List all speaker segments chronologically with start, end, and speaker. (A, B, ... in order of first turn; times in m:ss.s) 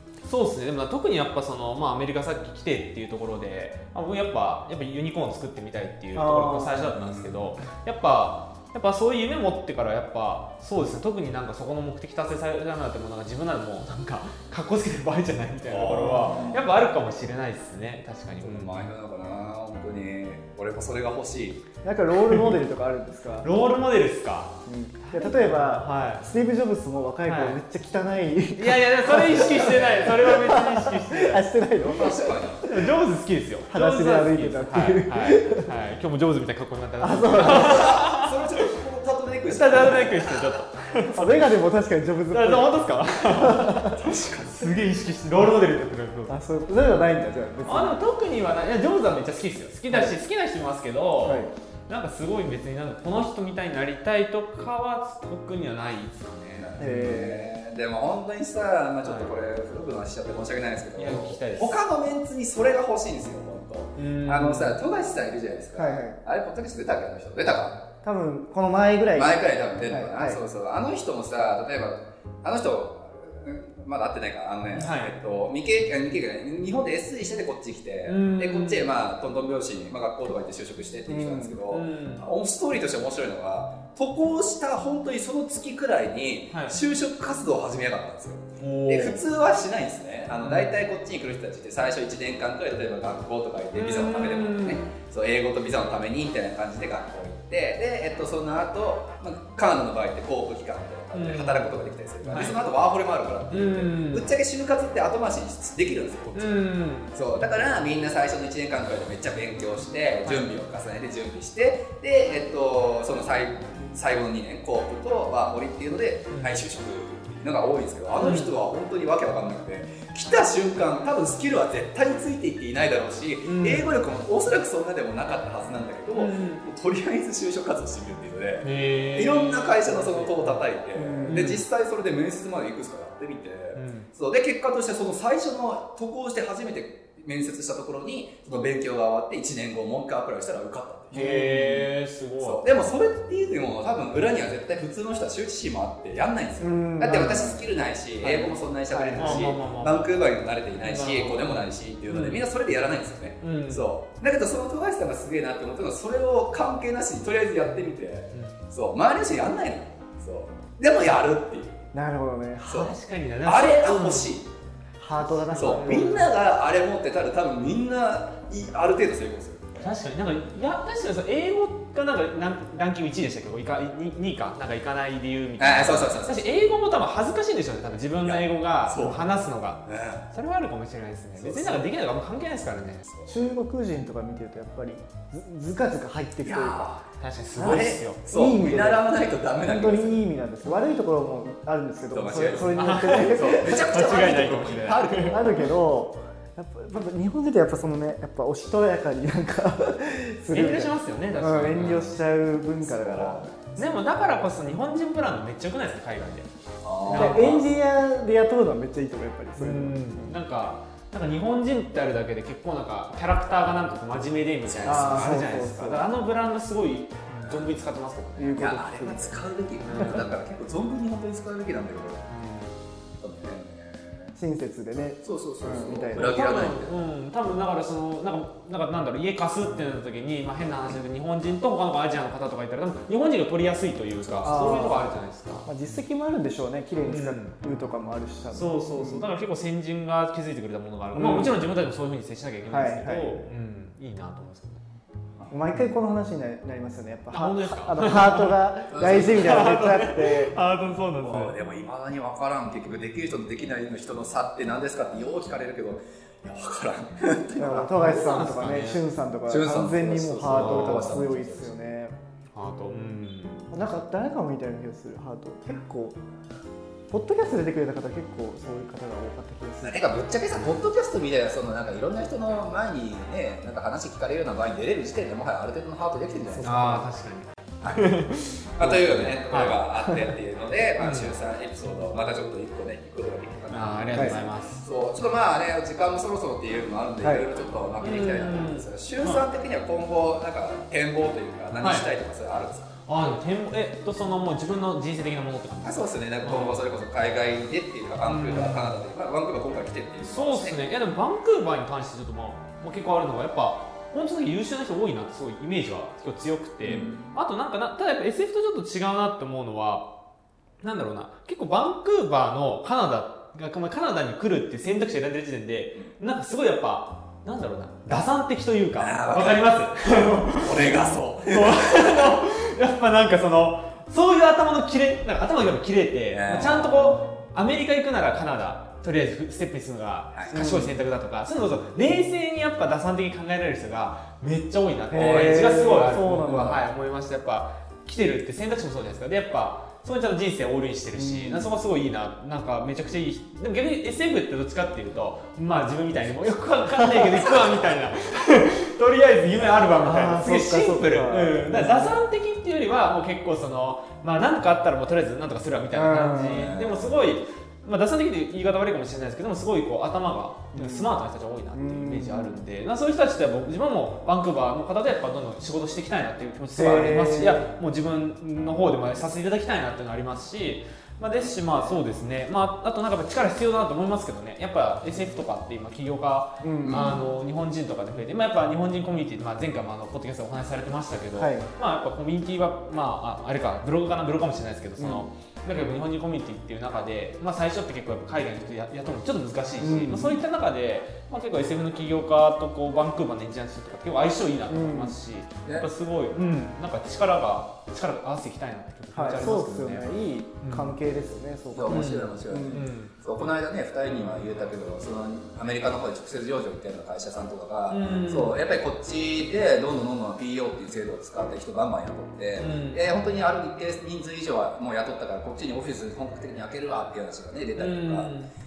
0:00.2-0:18.9 A
0:06.1-0:06.9 B
0:06.9-0:07.5 C
0:15.7-0:16.6 C
0:18.4-0:21.6 C
0:21.8-0:23.5 B
0:22.2-0:22.6 A
0:23.4-0:26.3 A
0:24.7-0:32.8 B
0:27.2-0:27.6 A
0:28.6-0:31.5 A
0:31.9-0:32.6 C
0:32.6-0:38.7 A
0:33.7-0:35.7 B
0:37.0-0:37.9 B
0:37.4-0:40.5 C
0:39.5-0:41.6 A
0:41.0-0:44.0 B
0:42.3-0:46.3 A
0:44.0-0:44.7 C
0:46.3-0:48.0 B
0:47.6-0:56.9 A
0:49.9-0:50.2 B
0:51.2-0:51.5 B
0:56.6-1:07.8 C
0:56.8-0:57.5 B
0:59.0-0:59.3 A
1:01.0-1:01.8 A
1:04.0-1:04.8 A
1:05.8-1:06.2 B
1:08.0-1:10.4 B
1:09.2-2:21.5 C
1:14.7-1:15.2 A
1:18.0-1:18.9 A
1:21.1-1:21.6 B
1:21.7-1:22.3 A
1:26.5-1:26.8 A
1:28.6-1:29.2 A
1:30.4-1:30.8 A
1:33.8-1:34.9 A
1:41.1-1:41.8 A
1:43.5-1:44.3 A
1:46.4-1:47.1 A
1:58.2-1:58.5 A
2:03.4-2:03.9 A
2:06.1-2:06.6 A
2:08.6-2:10.6 A
2:10.9-2:11.5 B
2:11.2-2:11.6 A
2:13.8-2:14.1 A
2:21.1-2:22.6 A
2:21.1-2:21.8 B
2:22.4-2:41.8 C
2:26.6-2:27.7 B
2:28.2-2:28.5 A
2:28.2-2:29.5 B
2:29.2-2:30.2 A
2:30.8-2:32.5 A
2:33.4-2:33.9 A
2:38.3-2:38.6 A
2:41.9-2:42.9 B
2:42.6-2:42.9 C
2:42.7-2:44.4 A
2:43.4-2:44.5 C
2:45.0-2:46.1 B
2:45.2-2:46.3 A
2:45.5-2:49.9 C
2:49.8-3:03.1 A
2:55.6-2:56.5 C
2:58.2-2:59.3 C
2:59.8-3:00.3 C
3:01.4-3:01.9 C
3:03.1-3:03.4 C
3:03.3-3:07.0 B
3:06.4-3:07.0 C
3:07.2-3:08.2 A
3:07.6-3:14.3 B
3:07.6-3:10.9 C
3:12.1-3:15.7 C
3:12.4-3:15.6 A
3:15.3-3:23.9 B
3:20.5-3:22.2 A
3:22.8-3:23.5 C
3:23.8-3:27.7 A
3:26.8-3:27.5 C
3:27.1-3:30.4 B
3:29.6-3:38.8 A
3:34.7-3:35.2 C
3:34.8-3:36.1 B
3:37.4-3:37.8 C
3:38.4-3:40.2 B
3:38.6-3:42.2 C
3:39.8-3:40.3 A
3:42.3-3:42.7 A
3:43.2-3:44.4 C
3:44.4-3:46.4 B
3:45.2-3:47.0 C
3:46.1-3:56.0 A
3:54.2-3:54.8 C
3:54.4-3:55.1 B
3:55.7-3:59.3 B
3:57.0-3:57.6 A
3:58.5-4:04.8 A
4:01.1-4:01.6 B
4:02.7-4:03.5 B
4:05.5-4:10.6 B
4:07.3-4:11.6 A
4:08.9-4:09.6 C
4:11.2-4:18.5 C
4:17.6-4:22.1 B
4:18.0-4:19.0 A
4:19.5-4:21.7 C
4:20.5-4:21.2 A
4:22.5-4:23.7 A
4:23.7-4:26.2 B
4:27.1-4:30.0 B
4:29.8-4:36.7 C
4:36.5-4:37.1 B
4:36.6-4:39.8 A
4:37.8-4:38.1 C
4:38.8-4:52.9 C
4:41.0-4:41.4 A
4:43.7-4:44.8 A
4:48.0-4:49.4 A
4:51.8-4:52.1 A
4:53.1-4:56.8 A
4:55.8-5:00.8 C
4:58.2-4:59.0 A
5:00.2-5:10.1 A
5:06.8-5:07.4 C
5:10.8-6:40.1 A
5:19.0-5:19.8 C
5:20.5-5:22.4 C
5:26.3-5:26.8 C
5:30.5-5:31.0 B
5:35.1-5:36.8 B
5:41.2-5:41.8 B
5:46.9-5:47.2 B
5:47.4-5:47.8 C
5:50.0-5:52.2 B
5:55.9-5:56.7 B
5:56.6-5:57.1 C
6:00.7-6:01.2 B
6:01.7-6:02.6 B
6:06.7-6:07.7 B
6:16.6-6:17.2 B
6:16.8-6:17.2 C
6:21.4-6:21.7 B
6:25.0-6:25.3 B
6:29.8-6:30.4 B
6:34.7-6:35.2 B
6:39.1-6:42.8 B
6:40.6-6:41.0 A
6:41.7-6:58.3 C
6:41.9-6:43.1 A
6:47.9-6:48.6 A
6:52.6-6:53.0 A
6:57.8-6:58.5 A